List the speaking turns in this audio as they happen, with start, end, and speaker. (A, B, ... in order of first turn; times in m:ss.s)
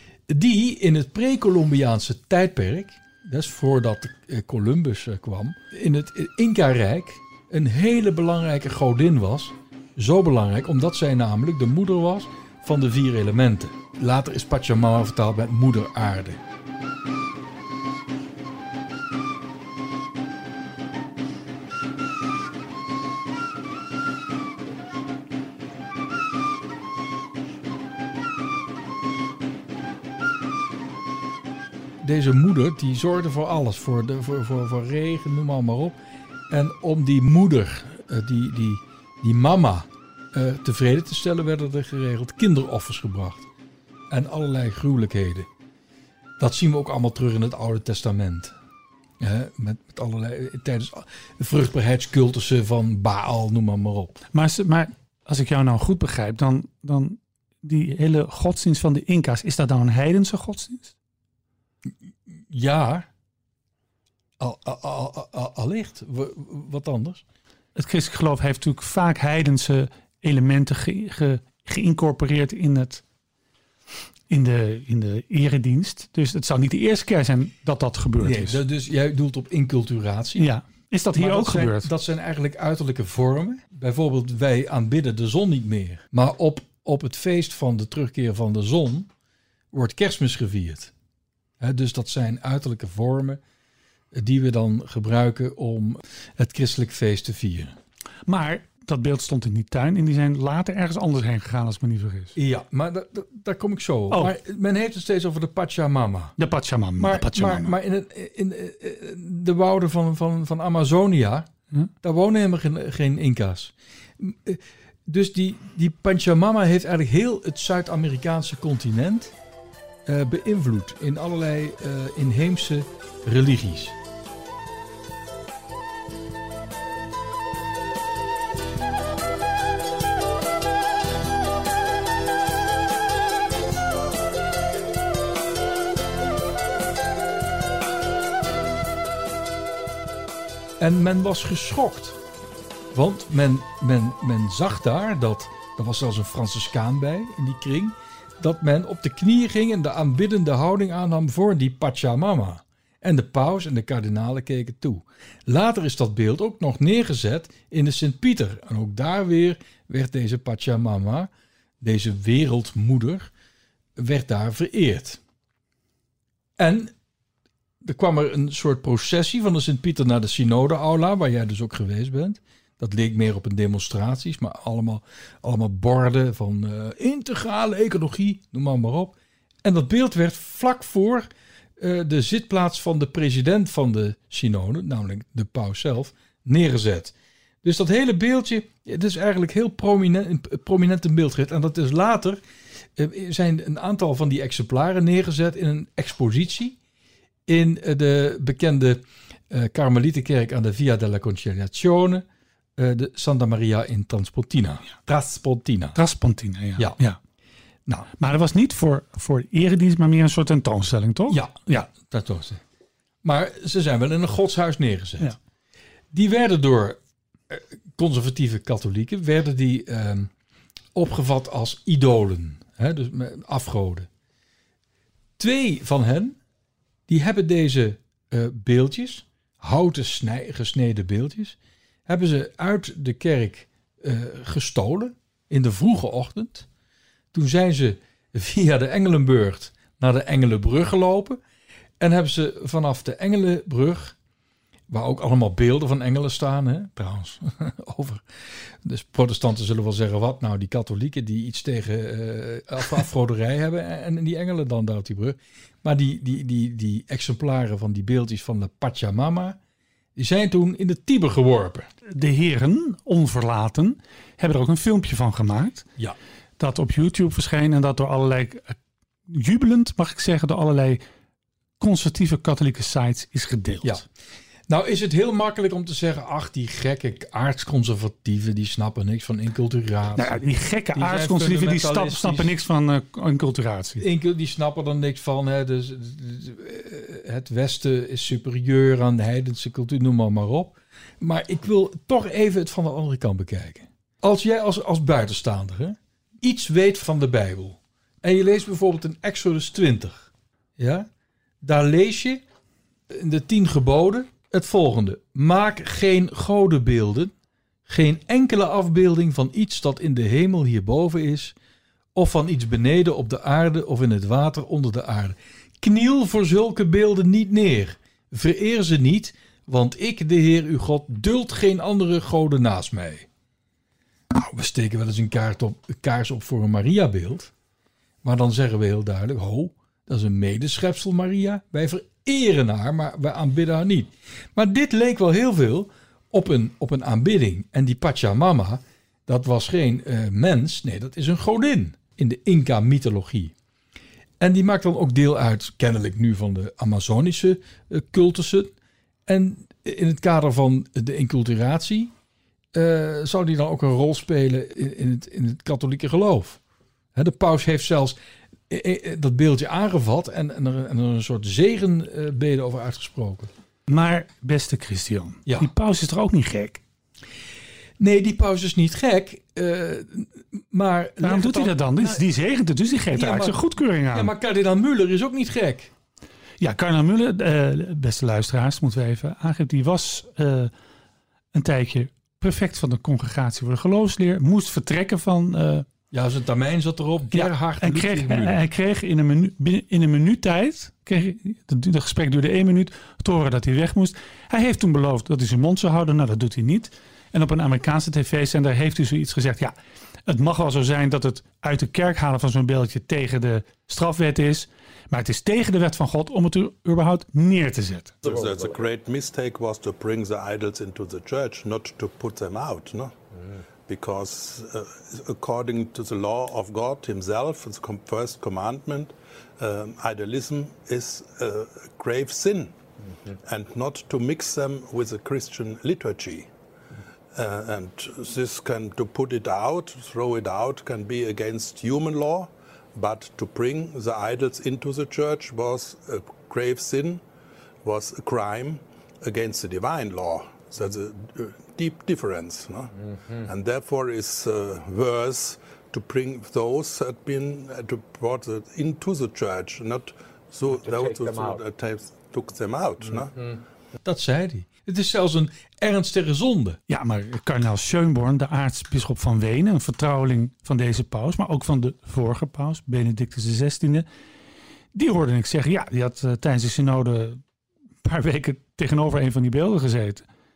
0:00.3-0:16.4 A
0:32.0-0:36.0 A
0:36.5-0:43.5 A
0:44.1-0:45.5 A
0:46.4-0:48.5 A
0:49.2-0:54.2 A
0:54.3-1:00.9 B
1:02.5-1:03.1 A
1:04.4-1:07.2 A
1:07.8-1:13.0 B
1:14.3-1:18.6 B
1:18.2-1:20.5 A
1:20.4-1:21.9 B
1:21.1-1:29.1 A
1:29.7-1:30.9 A
1:31.6-1:33.4 A
1:34.1-1:37.8 A
1:38.3-1:42.4 B
1:42.4-1:46.4 A
1:46.4-1:47.8 B
1:47.0-1:51.5 A
1:52.0-1:59.3 A
2:00.1-2:04.0 A
2:20.8-2:22.2 A
2:22.9-2:41.3 A
2:41.8-2:43.3 A
2:44.0-2:45.2 A
2:46.6-2:46.9 A
2:47.8-3:01.3 A
3:01.8-3:12.4 A
3:13.0-3:16.8 A
3:17.5-3:22.2 A
3:22.8-3:26.0 A
3:26.0-3:27.2 B
3:28.2-3:31.9 B
3:31.3-3:32.6 A
3:33.2-3:35.3 A
3:36.1-3:37.0 A
3:37.5-3:40.3 A
3:41.0-3:44.1 A
3:45.4-3:46.4 A
3:47.1-3:56.7 A
3:57.3-4:01.4 A
4:02.0-4:04.2 A
4:04.9-4:08.2 A
4:08.8-4:19.6 A
4:20.2-4:21.9 A
4:22.1-4:25.9 B
4:26.6-4:31.0 B
4:31.8-4:34.0 B
4:34.7-4:42.5 A
4:40.2-4:44.0 B
4:44.0-5:01.1 A
5:01.6-5:02.4 A
5:03.1-5:07.3 A
5:07.9-5:11.6 A
5:12.2-5:23.3 A
5:24.3-5:27.5 A
5:28.2-5:43.5 A
5:44.4-5:48.7 A
5:49.3-5:52.1 A
5:52.8-5:56.6 A
5:57.2-5:58.2 A
5:58.7-6:03.5 A
6:03.9-6:06.8 B
6:08.0-6:12.2 A
6:11.2-6:14.3 B
6:13.1-6:13.6 A
6:14.1-6:15.9 A
6:16.6-6:20.7 B
6:21.5-6:25.9 B
6:26.1-6:28.6 A
6:27.3-6:48.2 B
6:48.2-7:06.5 C
7:07.3-7:17.2 C
7:17.8-7:33.6 C
7:34.0-7:36.8 A
7:36.9-7:44.1 B
7:44.9-7:47.4 B
7:48.0-7:50.2 B